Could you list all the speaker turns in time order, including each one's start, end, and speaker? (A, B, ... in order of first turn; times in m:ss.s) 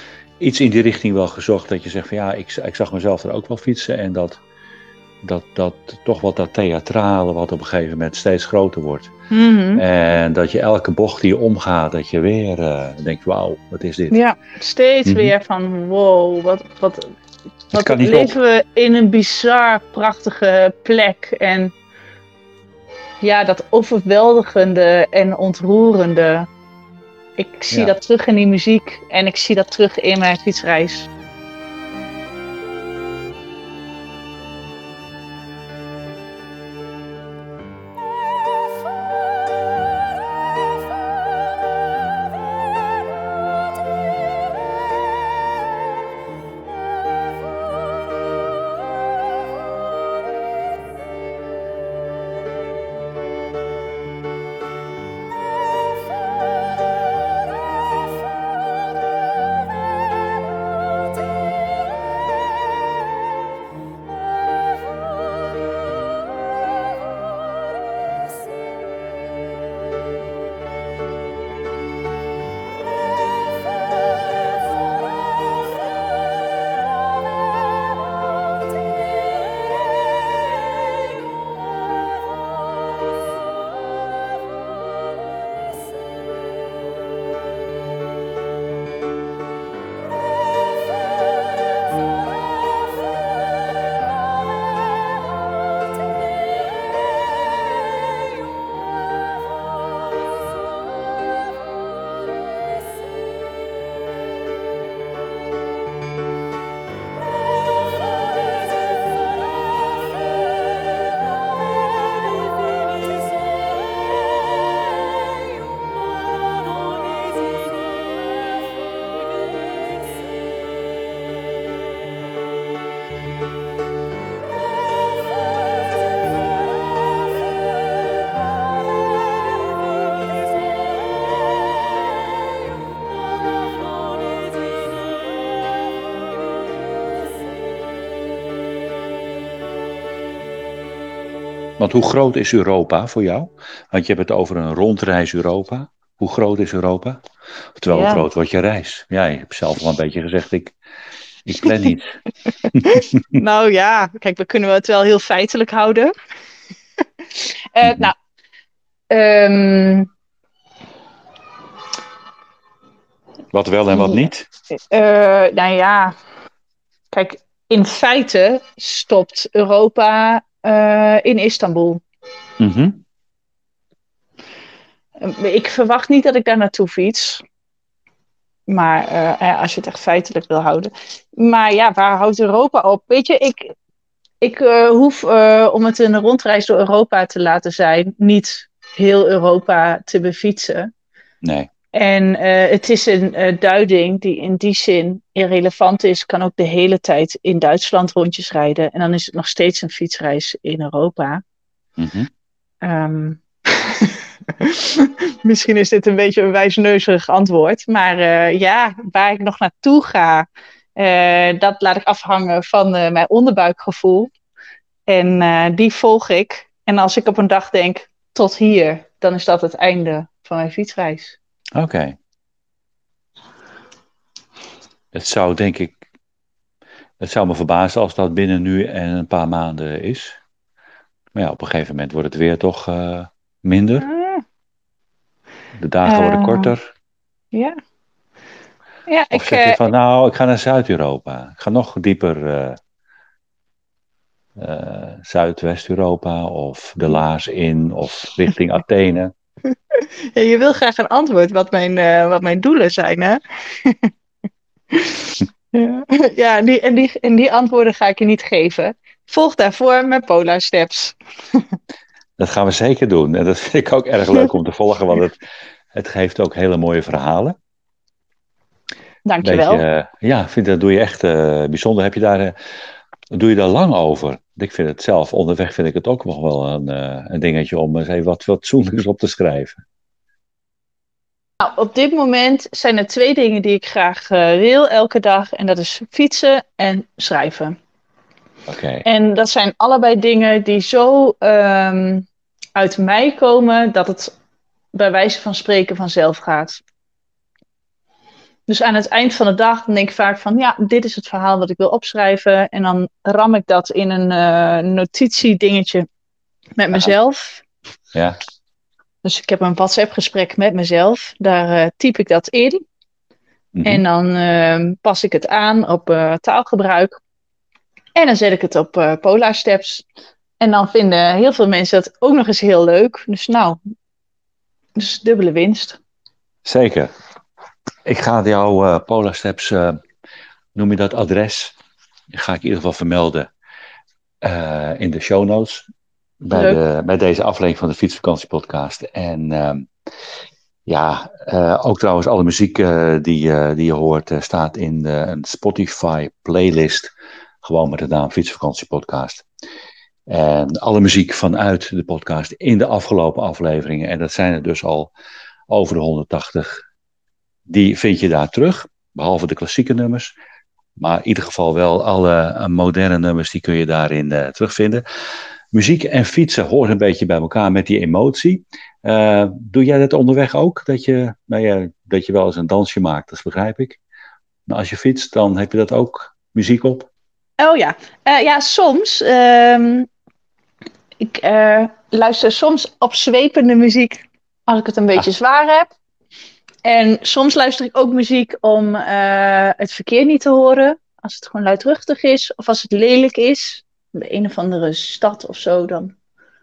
0:00.4-0:04.4 A
0:05.2-0:09.1 A
0:09.3-0:09.8 B
0:09.8-0:14.1 A
0:14.1-0:17.1 B
0:15.0-0:15.3 A
0:17.7-0:21.7 B
0:17.7-0:18.4 A
0:23.2-0:26.5 B
0:27.4-0:31.1 B
2:21.8-2:27.2 A
2:27.8-2:30.8 A
2:27.9-2:28.3 B
2:31.4-2:32.2 A
2:32.8-2:36.1 B
2:37.7-2:38.1 B
2:37.8-2:38.1 A
2:39.1-2:40.1 B
2:43.5-2:44.5 A
2:43.9-2:46.1 B
2:47.1-2:52.0 B
2:52.6-2:53.0 A
2:55.2-2:57.4 B
2:58.7-3:03.7 B
3:04.4-3:10.9 B
3:11.4-3:11.7 A
3:11.9-3:21.4 B
3:22.0-3:22.3 A
3:22.8-3:34.3 B
3:35.1-3:41.4 B
3:41.7-3:42.2 A
3:45.1-3:46.0 A
3:47.2-3:50.4 A
3:51.3-3:54.1 A
3:54.0-3:54.4 B
3:55.7-3:56.8 A
3:56.0-3:56.7 B
3:57.5-3:57.8 B
3:59.1-3:59.8 B
3:59.3-4:02.8 A
4:04.6-4:09.3 A
4:09.9-4:14.1 B
4:14.9-4:21.6 B
4:22.4-4:25.4 A
4:25.9-4:27.6 A
4:29.2-4:29.8 B
4:29.4-4:32.5 A
4:33.3-4:39.8 A
4:41.6-4:47.8 B
4:48.7-4:49.0 A
4:49.0-4:54.3 B
4:54.9-4:56.8 B
4:58.7-5:06.1 B
5:06.8-5:07.6 B
5:09.2-5:12.8 B
5:13.7-5:14.0 A
5:13.8-5:17.2 B
5:18.2-5:20.0 B
5:20.6-5:23.8 B
5:25.0-5:26.0 B
5:26.6-5:27.1 A
5:28.0-5:30.0 A
5:30.7-5:31.8 A
5:32.3-5:33.5 A
5:34.4-5:35.9 A
5:36.4-5:39.9 A
5:36.5-5:36.8 B
5:40.8-5:49.4 A
5:50.3-5:55.1 A
5:55.7-5:56.8 A
5:57.7-6:00.3 A
6:01.0-6:05.0 A
6:05.7-6:14.0 A
6:14.7-6:17.1 A
6:17.6-6:20.1 B
6:21.2-6:25.9 B
6:26.8-6:36.1 B